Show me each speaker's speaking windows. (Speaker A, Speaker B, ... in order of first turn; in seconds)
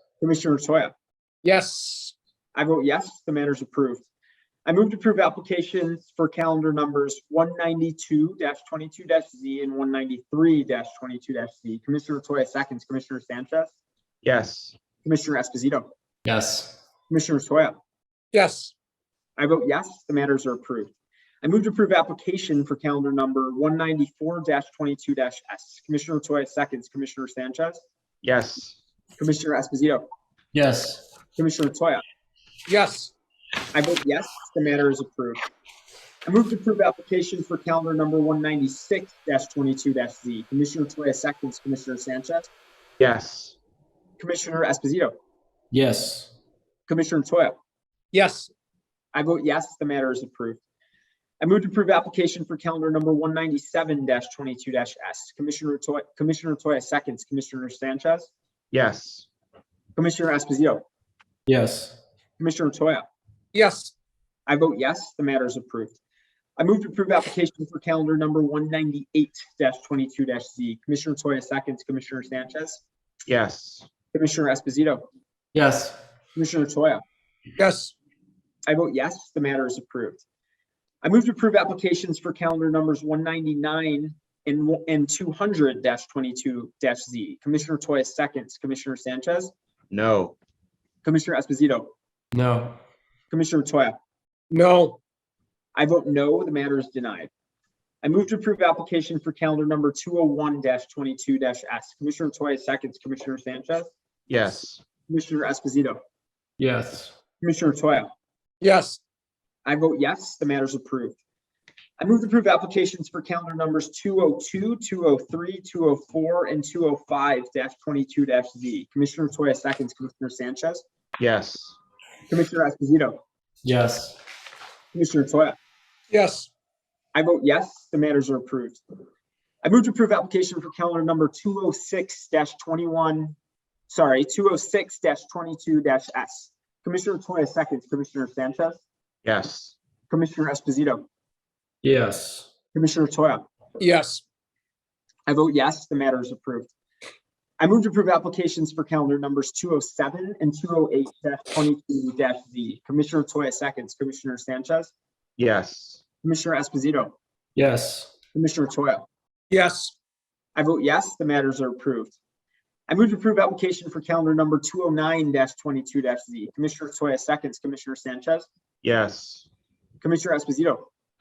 Speaker A: 0.2-0.9, 2.5-4.0, 4.7-13.7, 15.0-15.9, 17.1-17.8, 19.4-27.8, 29.2-30.1, 31.4-32.0, 33.7-35.4, 36.3-42.5, 44.2-45.1, 46.9-47.6, 49.1-50.6, 51.4-58.3, 60.0-60.8, 62.4-63.1, 64.5-66.0, 66.6-72.8, 74.1-75.0, 76.4-77.0, 78.7-80.2, 81.0-89.5, 91.0-91.9, 93.3-94.0, 95.8-97.3, 98.0-103.9, 105.1-106.0, 107.4-108.1, 109.7-111.2, 112.0-120.8, 122.3-123.2, 124.9-125.6, 127.1-128.8, 129.6-133.4, 133.9-138.8, 140.1-141.1, 142.7-143.4, 145.3-146.7, 147.6-154.9, 156.2-157.2, 158.3-159.1, 160.6-162.2, 162.9-168.5, 170.0-170.9
Speaker B: 1.4-2.1, 18.3-18.7, 32.7-33.1, 48.1-48.5, 63.5-63.9, 77.6-78.0, 94.5-95.0, 108.6-109.0, 126.1-126.5, 143.8-144.2, 159.5-159.9
Speaker C: 14.2-14.8, 28.2-28.8, 43.0-43.6, 58.7-59.3, 73.3-73.9, 89.9-90.4, 104.3-104.8, 121.2-121.8, 139.2-139.8, 155.4-156.0, 168.8-169.5
Speaker D: 16.2-16.8, 30.5-31.1, 45.7-46.3, 61.5-62.0, 75.5-76.0, 92.3-92.8, 106.6-107.1, 123.6-124.2, 141.8-142.5, 157.6-158.1